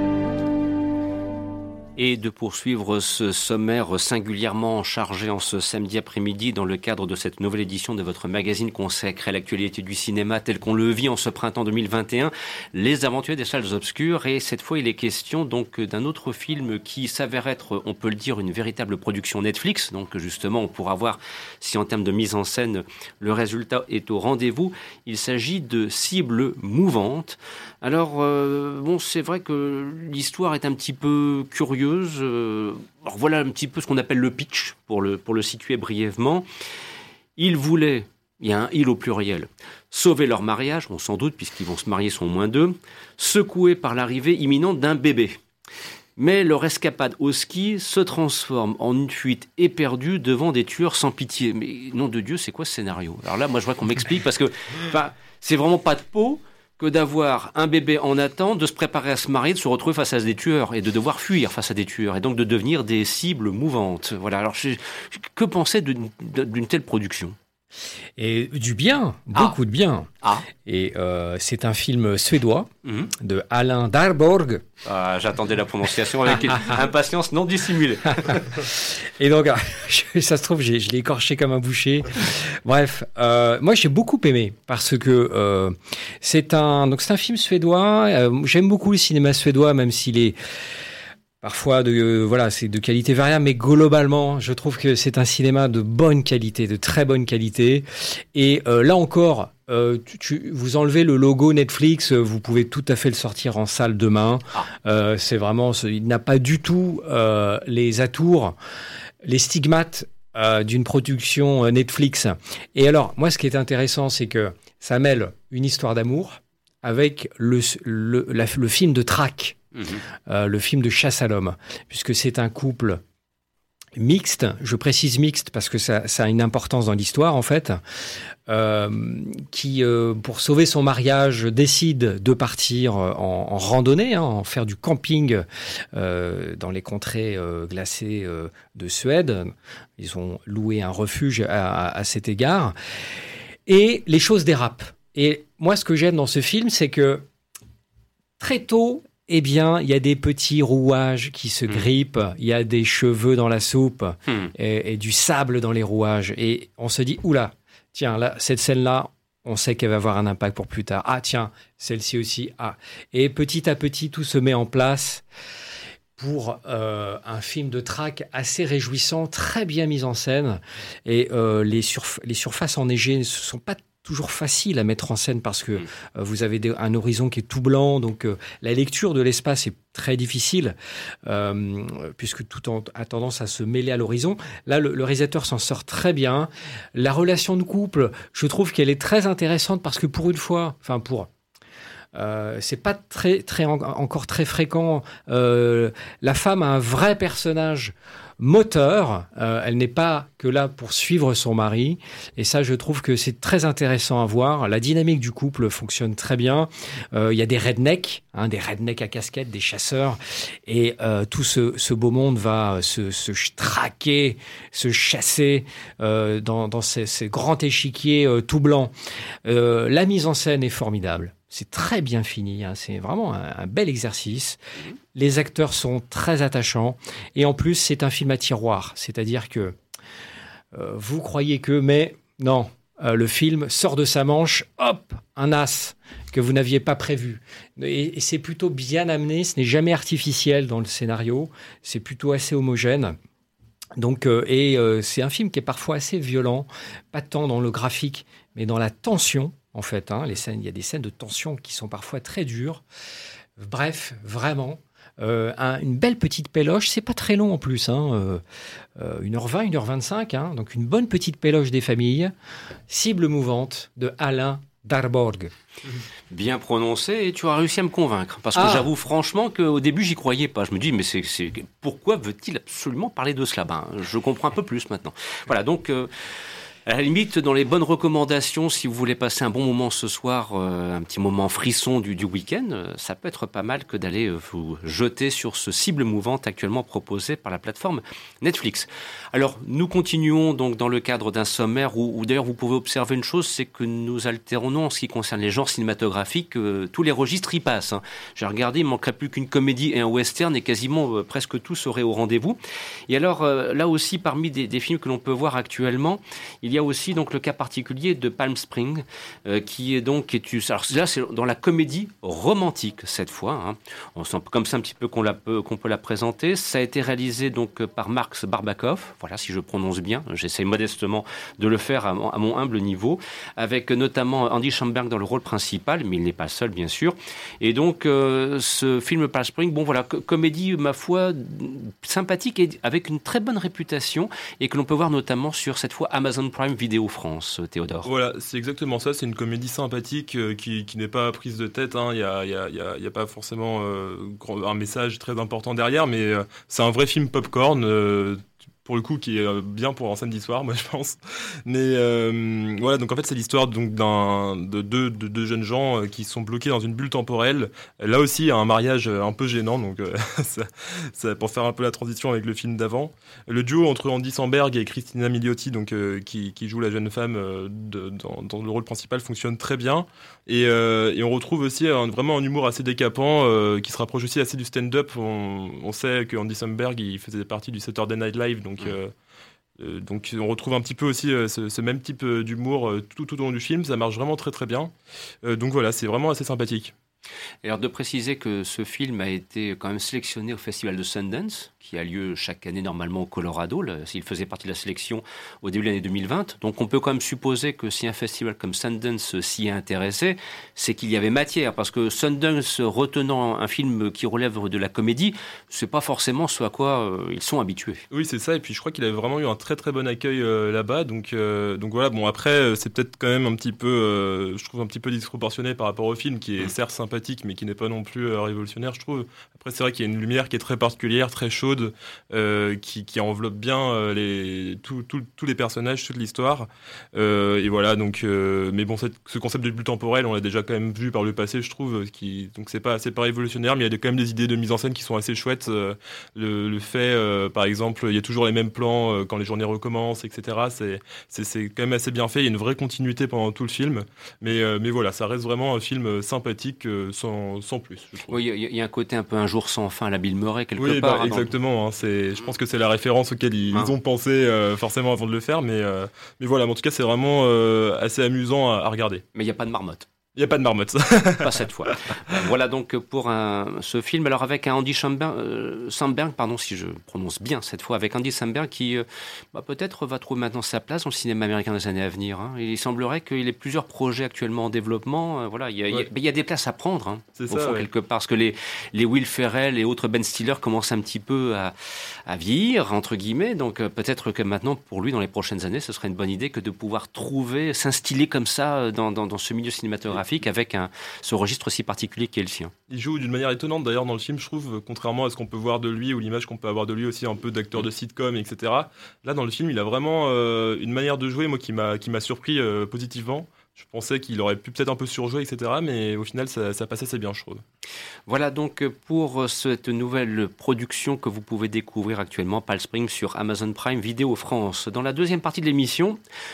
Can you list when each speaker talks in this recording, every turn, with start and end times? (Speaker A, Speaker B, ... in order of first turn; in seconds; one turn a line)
Speaker A: 2.0-36.5
Speaker A: 37.4-45.4
Speaker A: 46.2-67.4
Speaker B: 68.2-70.1
Speaker B: 70.7-74.7
Speaker A: 72.8-73.1
Speaker A: 74.8-78.5
Speaker B: 78.3-90.4
Speaker B: 91.4-108.6
Speaker B: 109.2-119.6
Speaker A: 119.8-120.0
Speaker B: 120.3-123.0
Speaker B: 124.0-127.8
Speaker B: 128.5-142.8
Speaker B: 143.7-147.3
Speaker B: 148.4-165.2
Speaker B: 166.2-191.3
Speaker B: 192.1-218.9
Speaker B: 219.4-224.6
Speaker B: 225.1-229.8
Speaker B: 230.7-243.2
Speaker B: 244.0-252.8
Speaker B: 253.6-258.4
Speaker B: 259.0-262.3
Speaker B: 262.9-265.5
Speaker A: 266.3-276.1
Speaker B: 268.6-268.9
Speaker A: 276.9-302.6
Speaker A: 303.1-338.1
Speaker C: 338.1-379.1
Speaker C: 379.8-384.9
Speaker C: 385.4-386.9
Speaker A: 387.6-408.1
Speaker C: 408.1-448.4
Speaker A: 448.3-451.5
Speaker C: 450.8-459.2
Speaker A: 459.4-460.1
Speaker C: 460.4-462.4
Speaker A: 461.4-481.7
Speaker C: 477.4-477.9
Speaker A: 482.3-492.7
Speaker C: 492.9-507.6
Speaker A: 508.3-516.2